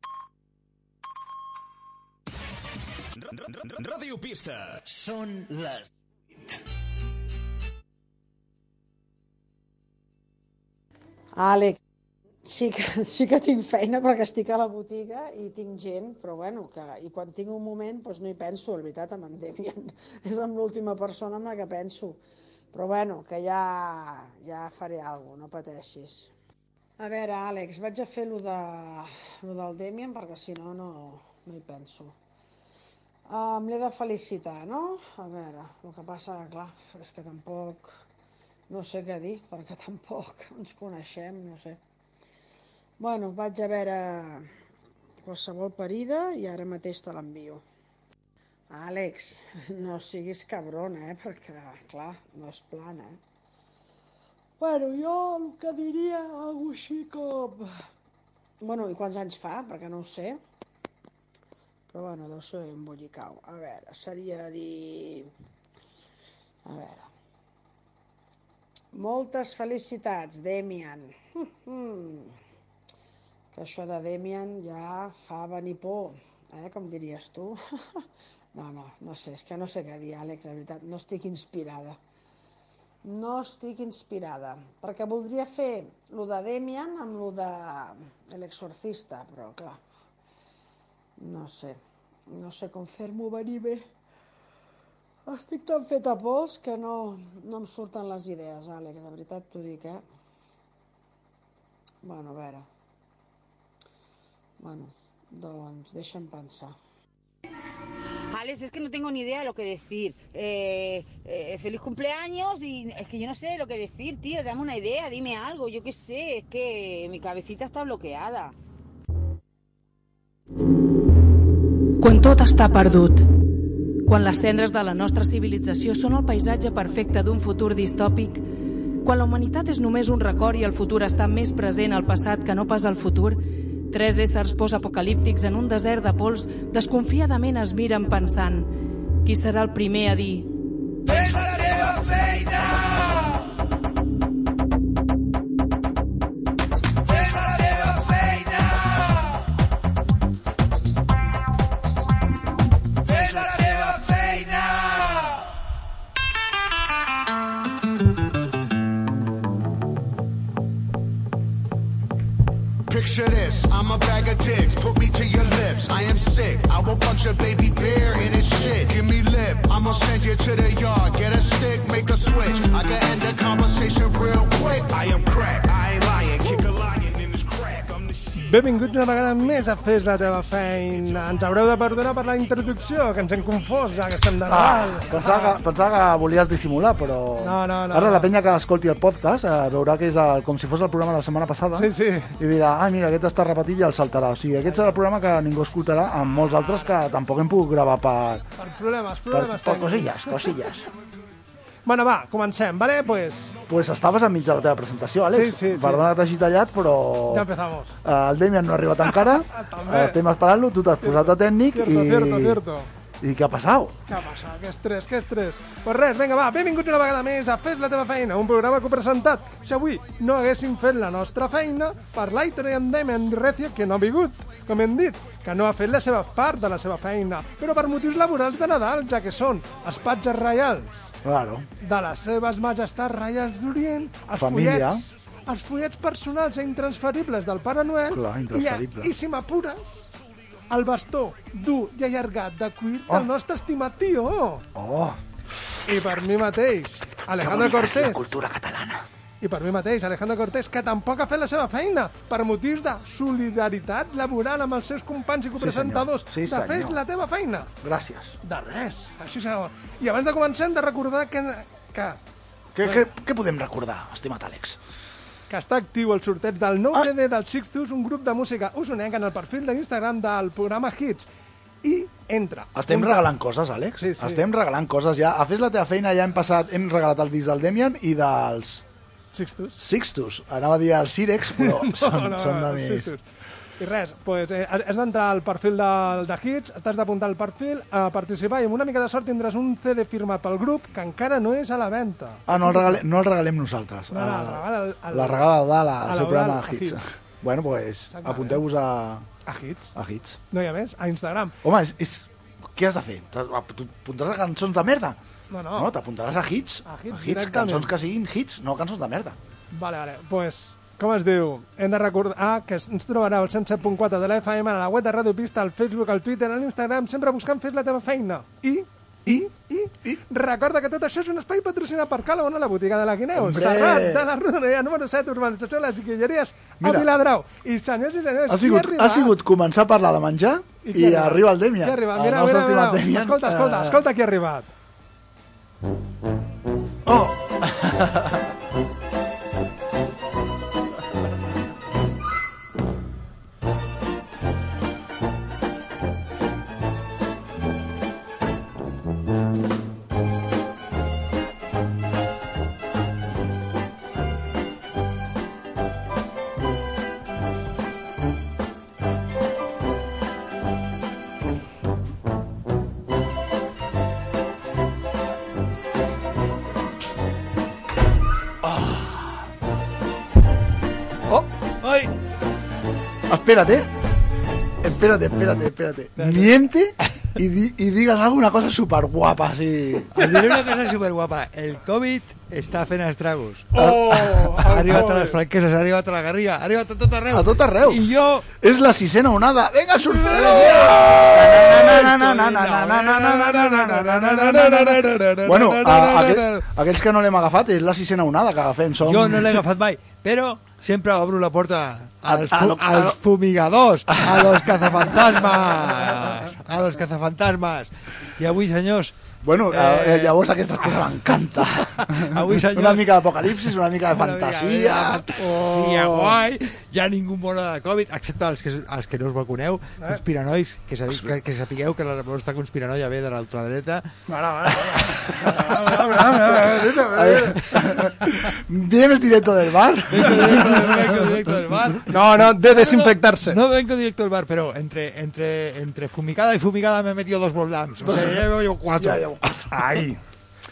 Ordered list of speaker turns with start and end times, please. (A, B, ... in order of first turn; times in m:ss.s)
0:11.3-0:11.8 A
0:12.4-0:22.2 A
0:22.7-0:26.3 A
0:27.0-0:32.2 A
0:33.3-0:37.9 A
0:38.7-0:41.8 A
0:43.0-0:44.5 A
0:45.2-0:47.6 A
0:48.7-0:53.2 A
0:54.6-0:57.8 A
0:58.6-1:00.4 A
1:01.9-1:05.3 A
1:06.6-1:07.1 A
1:08.9-1:12.4 A
1:13.5-1:22.0 A
1:23.0-1:29.8 A
1:31.2-1:33.9 A
1:35.3-1:40.0 A
1:42.0-1:42.7 A
1:44.6-1:46.7 A
1:48.3-1:58.5 B
2:02.0-2:03.3 C
2:04.0-2:08.4 C
2:09.0-2:18.7 C
2:19.2-2:20.5 C
2:21.1-2:22.9 D
2:27.1-2:29.2 D
2:33.1-2:35.4 D
2:42.9-2:58.4 E
2:58.3-3:05.5 F
3:04.5-3:18.4 G
3:07.4-3:08.3 F
3:11.7-3:12.3 F
3:16.4-3:16.9 F
3:18.6-3:20.5 F
3:19.3-3:20.8 G
3:21.8-3:23.6 F
3:23.7-3:27.5 G
3:25.3-3:26.0 F
3:27.3-3:28.0 F
3:28.0-3:32.6 G
3:29.2-3:30.2 F
3:31.0-3:32.9 F
3:33.2-3:34.0 G
3:34.1-3:51.1 F
3:51.2-3:51.7 G
3:51.8-4:00.0 F
3:54.4-3:55.0 G
3:58.1-3:59.1 G
4:00.7-4:04.6 F
4:04.7-4:05.2 G
4:05.8-4:08.3 F
4:07.4-4:09.0 G
4:09.4-4:17.7 F
4:15.6-4:17.0 G
4:17.8-4:18.3 G
4:18.4-4:22.2 F
4:22.7-4:24.8 G
4:25.5-4:31.2 F
4:31.8-4:33.2 F
4:32.7-4:38.8 G
4:34.0-4:34.4 F
4:39.3-4:39.8 F
4:39.8-4:43.1 G
4:41.6-4:43.2 F
4:43.8-4:52.9 F
4:52.5-4:59.3 G
4:54.1-4:55.5 F
4:56.0-4:57.0 F
4:58.1-4:58.6 F
4:59.4-4:59.9 F
4:59.9-5:00.4 G
5:00.5-5:01.6 F
5:01.6-5:05.2 G
5:05.5-5:05.9 F
5:05.7-5:09.4 G
5:06.8-5:07.9 F
5:09.7-5:19.7 F
5:19.2-5:20.2 G
5:20.3-5:29.3 F
5:23.3-5:24.3 G
5:26.8-5:27.1 G
5:28.5-5:34.0 G
5:30.8-5:34.7 F
5:37.0-5:38.4 G
6:08.6-6:09.2 G
6:11.8-6:12.1 D
6:13.3-6:13.9 G
6:14.8-6:20.2 G
6:16.2-6:16.5 D
6:20.1-6:23.8 D
6:23.7-6:25.4 F
6:24.6-6:28.4 D
6:27.3-6:28.0 G
6:28.6-6:39.6 G
6:30.3-6:36.6 D
6:39.0-6:49.2 D
6:42.2-6:43.2 G
6:44.1-6:45.2 G
6:49.4-6:55.3 G
6:49.7-6:50.4 D
6:51.9-6:53.1 D
6:54.1-7:04.1 D
6:55.4-6:56.4 F
7:04.3-7:08.0 F
7:07.0-7:11.2 G
7:10.1-7:19.6 D
7:12.1-7:13.6 F
7:18.0-7:18.4 G
7:19.0-7:19.7 G
7:19.7-7:20.2 F